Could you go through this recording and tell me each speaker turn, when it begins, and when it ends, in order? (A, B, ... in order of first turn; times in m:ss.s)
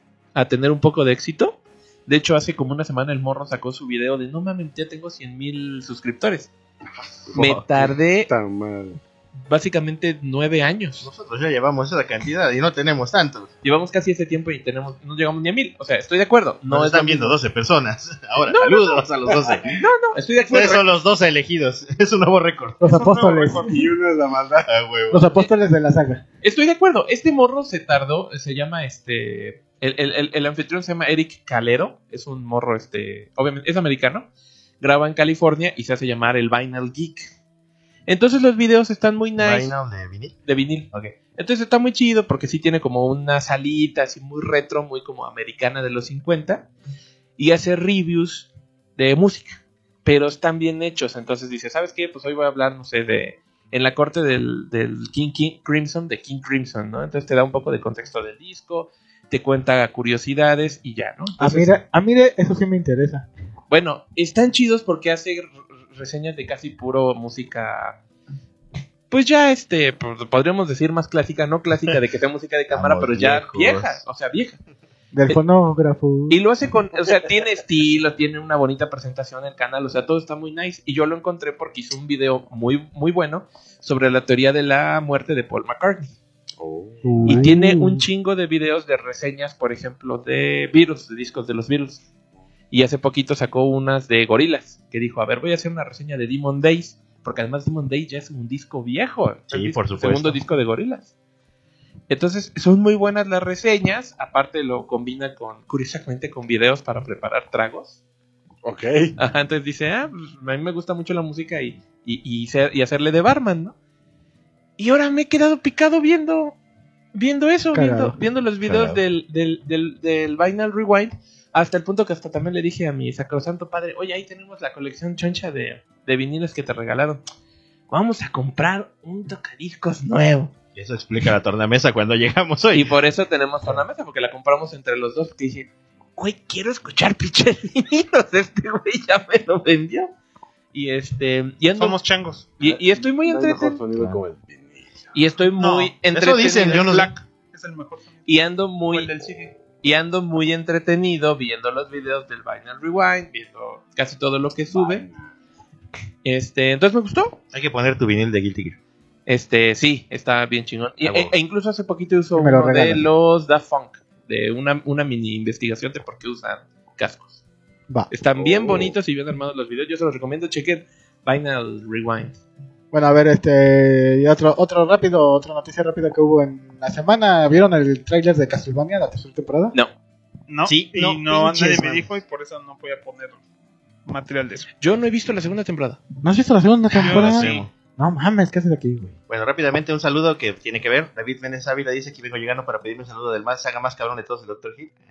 0:00.4-0:06.5 A
0:06.9-0:09.0 B
0:07.3-0:08.3 A
0:07.4-0:07.6 C
0:09.5-0:11.1 A
0:11.0-0:13.5 C
0:13.6-0:17.4 A
0:16.7-0:19.8 C
0:18.4-0:20.9 A
0:20.4-0:22.8 C
0:22.8-0:23.8 D
0:22.8-0:23.8 E
0:23.6-0:24.7 B
0:24.7-0:25.4 C
0:25.1-0:26.2 D
0:26.4-0:34.3 A
0:34.8-0:37.3 A
0:38.1-0:39.7 A
0:39.4-0:40.4 C
0:40.4-0:46.7 A
0:47.4-1:01.8 A
1:01.4-1:03.3 D
1:03.7-1:08.0 A
1:09.1-1:14.6 A
1:12.7-1:14.0 C
1:15.1-1:16.4 D
1:16.3-1:26.2 A
1:26.6-1:27.6 B
1:27.0-1:27.7 D
1:27.2-1:32.0 A
1:32.7-1:41.1 A
1:39.5-1:40.4 C
1:42.1-1:48.0 A
1:48.6-1:49.1 B
1:49.2-1:53.8 A
1:54.8-1:56.6 A
1:57.1-2:07.2 A
1:57.7-1:58.2 D
1:58.7-1:59.0 C
2:07.9-2:10.5 A
2:10.8-2:12.9 C
2:12.7-2:20.1 A
2:20.7-2:22.0 A
2:21.8-2:22.5 E
2:22.6-2:23.8 A
2:22.6-2:25.1 B
2:25.1-2:26.9 A
2:25.6-2:25.9 E
2:26.1-2:27.1 C
2:26.6-2:28.3 E
2:28.3-2:29.1 A
2:28.9-2:29.6 E
2:29.8-2:35.1 A
2:34.7-2:35.1 B
2:36.2-2:37.4 A
2:37.5-2:38.8 C
2:39.3-2:47.4 A
2:41.0-2:41.3 C
2:42.4-2:43.1 D
2:48.1-2:52.4 A
2:48.3-2:49.0 B
2:52.9-2:59.8 D
3:00.5-3:03.4 E
3:00.6-3:01.3 C
3:01.3-3:02.0 D
3:04.1-3:04.7 E
3:04.8-3:06.0 A
3:06.2-3:09.2 D
3:07.0-3:07.7 E
3:07.0-3:07.7 C
3:09.3-3:15.0 C